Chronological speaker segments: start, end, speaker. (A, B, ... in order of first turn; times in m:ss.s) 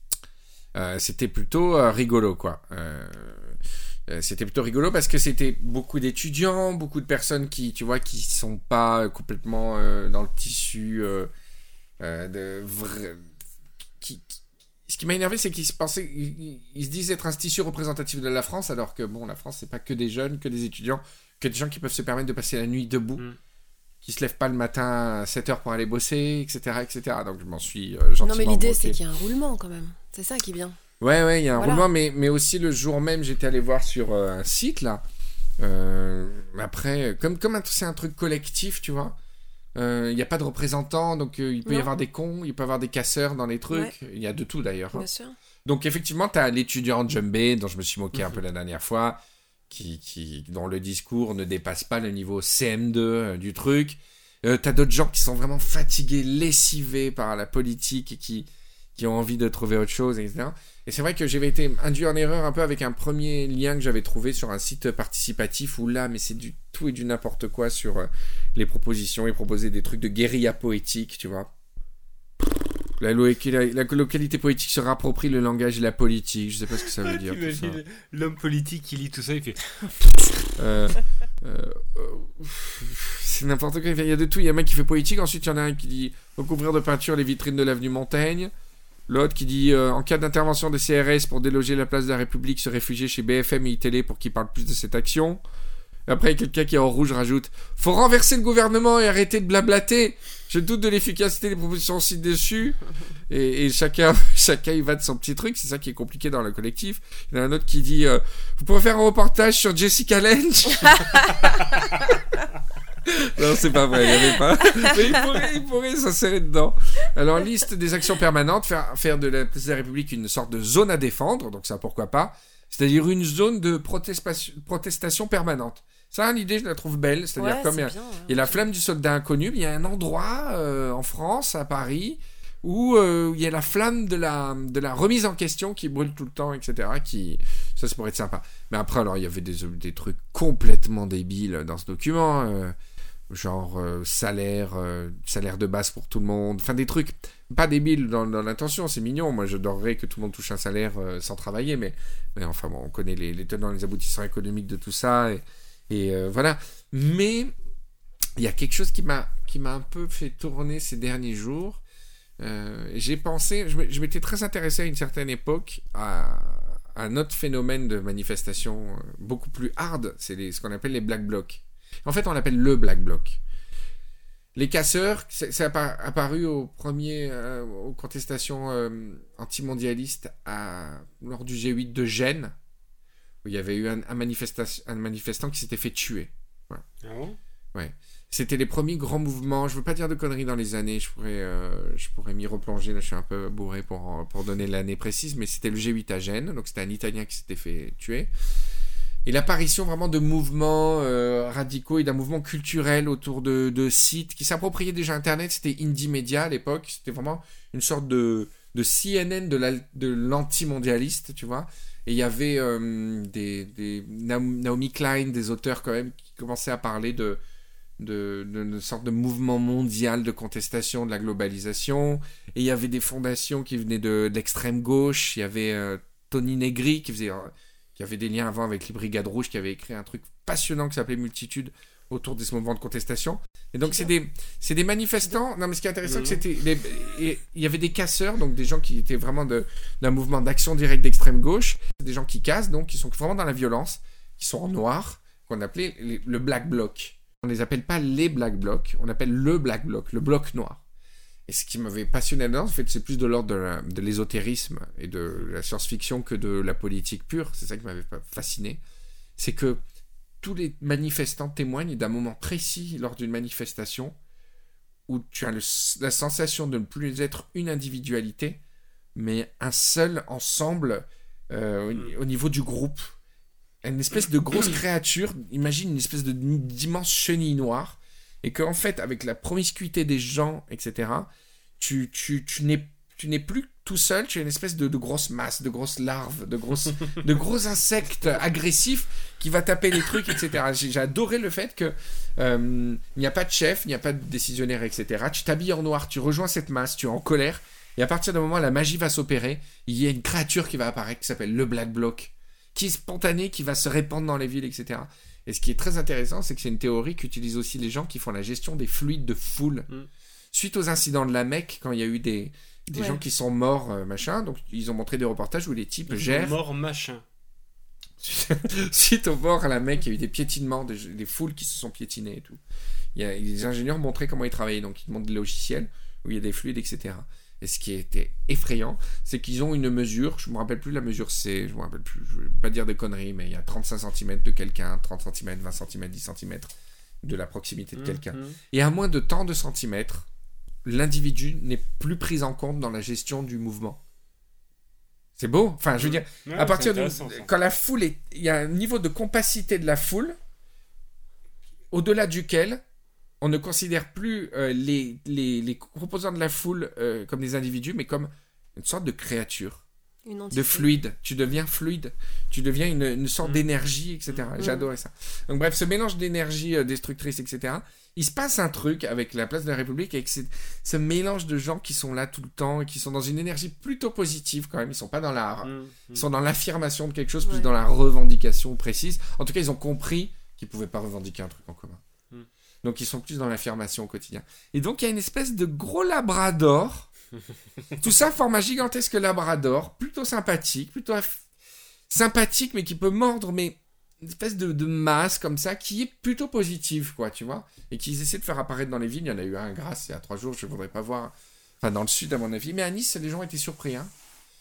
0:00.8-0:11.3 A
0:12.0-0:13.2 A
0:14.0-0:23.3 A
0:24.0-0:29.0 A
0:28.2-0:30.8 B
0:31.0-0:35.0 A
0:31.6-0:31.9 B
0:35.6-0:39.2 A
0:39.8-0:45.1 A
0:41.6-0:41.9 B
0:43.7-0:44.0 B
0:44.9-0:45.4 B
0:45.6-1:11.5 A
1:13.0-1:17.8 A
1:16.9-1:20.0 C
1:20.6-1:28.5 A
1:29.1-1:35.4 A
1:36.1-1:52.0 A
1:53.0-2:22.8 A
2:07.4-2:08.7 B
2:23.3-2:37.5 A
2:38.4-2:41.8 A
2:42.4-2:53.4 A
2:54.6-3:02.6 A
3:03.4-3:06.8 A
3:07.0-3:07.4 C
3:07.7-3:18.3 A
3:19.2-3:37.4 A
3:38.0-4:10.8 A
3:56.0-3:56.4 C
4:11.5-4:18.8 A
4:19.4-4:19.8 A
4:20.4-4:24.2 A
4:25.1-4:28.6 A
4:29.2-4:33.2 A
4:33.8-5:09.9 A
5:10.5-5:16.6 A
5:12.9-5:13.2 B
5:16.1-5:17.2 C
5:18.2-5:22.6 A
5:23.2-5:40.3 A
5:38.0-5:38.6 C
5:40.8-5:44.0 A
5:45.4-5:50.4 A
5:46.0-5:47.5 C
5:51.9-5:52.8 A
5:53.4-5:59.8 A
6:00.2-6:00.9 B
6:00.5-6:22.0 A
6:04.6-6:04.9 B
6:15.6-6:16.2 C
6:22.8-6:27.1 A
6:28.0-6:31.4 A
6:32.1-6:44.1 A